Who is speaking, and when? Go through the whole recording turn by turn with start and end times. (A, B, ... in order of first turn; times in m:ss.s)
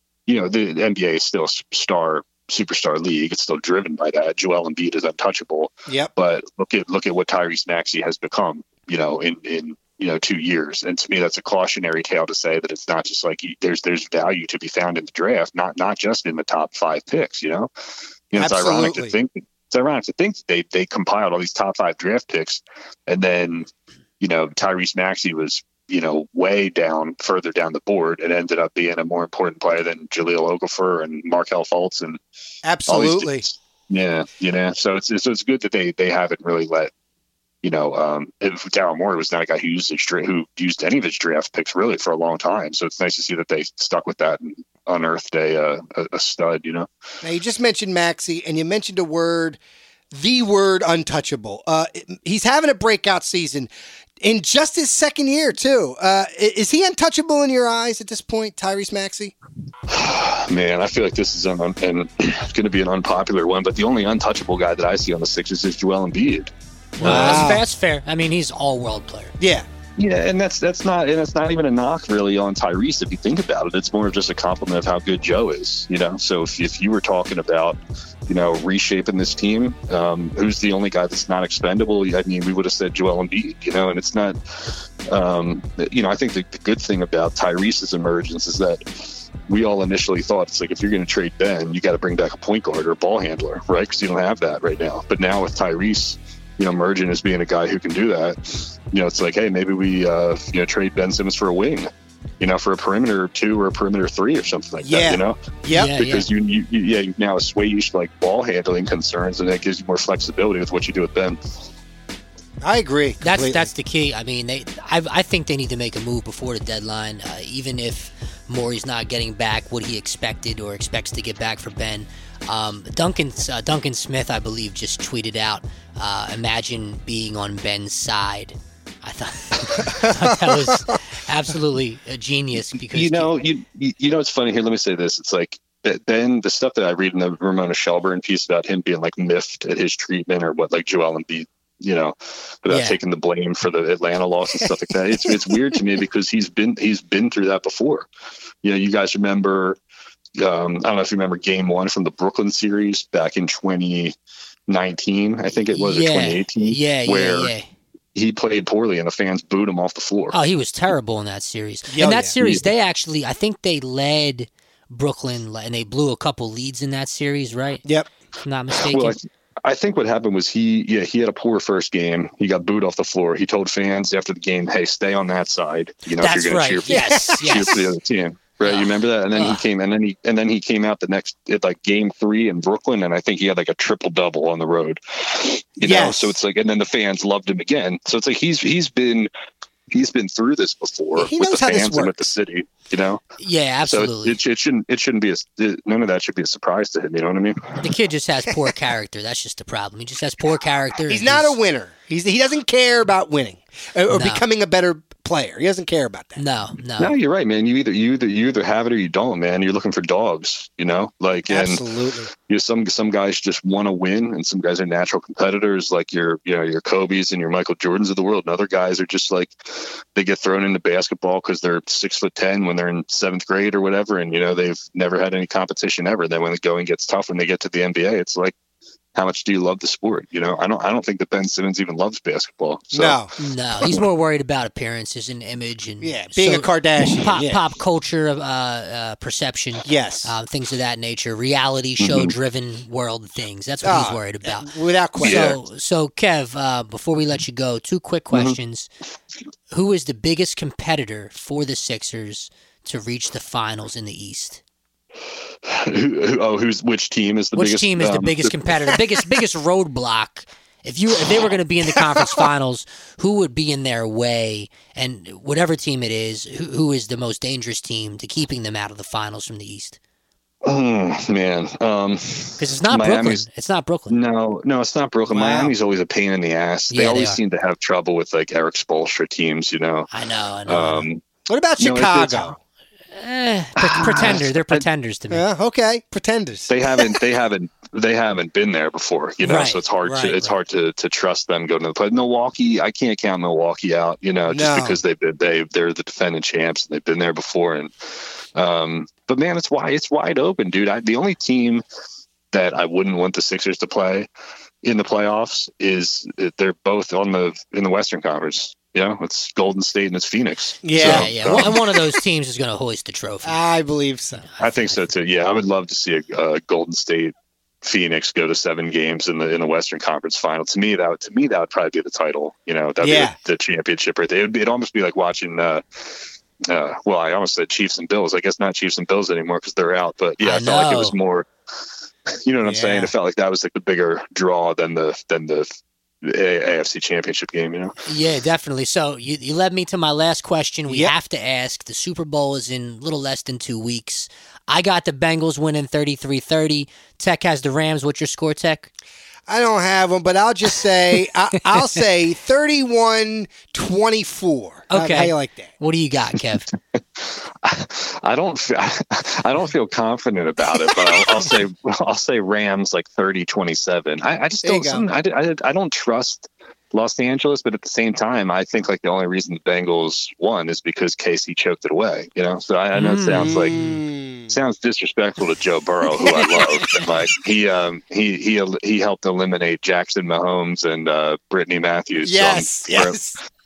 0:00.3-0:17.7 A
0:18.3-0:23.7 A
0:18.4-0:19.2 B
0:24.2-0:32.2 A
0:32.6-0:33.4 B
0:32.9-0:36.9 A
0:37.6-0:46.9 A
0:47.2-0:49.6 B
0:50.1-0:59.3 B
0:59.9-1:07.6 A
1:07.0-1:07.6 B
1:07.0-1:09.3 C
1:09.4-1:09.7 B
1:10.0-1:41.9 A
1:42.4-1:45.4 A
1:44.8-1:45.9 B
1:45.7-1:46.3 C
1:45.9-1:51.4 A
1:52.6-1:53.7 B
1:53.2-2:13.3 C
2:10.0-2:10.8 B
2:12.9-2:28.1 A
2:22.7-2:23.0 C
2:25.2-2:25.8 B
2:28.6-2:29.8 A
2:30.4-2:34.2 A
2:34.7-2:37.5 A
2:35.7-2:37.7 C
2:38.2-2:40.4 A
2:40.3-2:47.8 C
2:41.9-2:42.4 B
2:47.8-2:48.1 B
2:48.4-2:49.2 C
2:48.8-3:09.3 A
2:56.2-2:57.8 C
2:56.9-2:57.8 B
2:58.6-2:59.6 C
3:05.8-3:06.4 B
3:09.9-3:13.2 A
3:11.2-3:12.1 B
3:13.4-3:14.4 C
3:13.9-3:17.8 A
3:17.8-3:21.6 C
3:21.1-3:26.4 B
3:24.1-3:24.4 C
3:26.4-3:27.1 C
3:27.0-3:31.8 A
3:31.5-3:32.3 B
3:32.4-3:48.5 A
3:49.2-3:53.2 A
3:52.9-3:53.3 B
3:53.4-4:08.9 C
3:56.0-3:57.6 B
3:59.8-4:00.4 B
4:02.0-4:02.3 A
4:03.8-4:05.6 B
4:05.2-4:05.6 A
4:08.3-4:08.6 A
4:09.7-4:14.6 C
4:15.6-4:19.0 A
4:17.6-4:30.0 C
4:30.6-4:33.4 A
4:32.6-4:34.2 C
4:34.1-4:40.1 A
4:35.3-4:35.7 B
4:36.9-4:37.4 C
4:40.1-4:41.1 C
4:40.7-4:41.2 A
4:41.5-4:42.6 B
4:41.8-4:42.6 A
4:43.1-4:45.4 C
4:43.8-4:44.8 A
4:45.3-4:47.2 B
4:46.7-4:57.9 A
4:49.4-4:50.4 C
4:54.5-4:55.0 B
4:58.6-5:01.8 A
5:02.5-5:04.3 A
5:04.8-5:11.8 A
5:10.8-5:11.8 B
5:11.0-5:13.6 C
5:13.4-5:14.5 B
5:14.4-5:15.1 C
5:14.6-5:31.5 A
5:23.0-5:23.4 B
5:30.4-5:31.2 C
5:32.4-5:35.7 A
5:32.6-5:33.1 B
5:36.2-5:38.0 A
5:38.0-5:48.9 C
5:40.9-5:41.1 B
5:49.5-5:55.7 B
5:54.9-5:56.7 C
5:57.2-6:13.8 A
6:04.6-6:05.1 B
6:12.9-6:14.0 C
6:13.3-6:14.6 B
6:14.5-6:23.2 A
6:16.1-6:17.2 B
6:22.2-6:23.4 B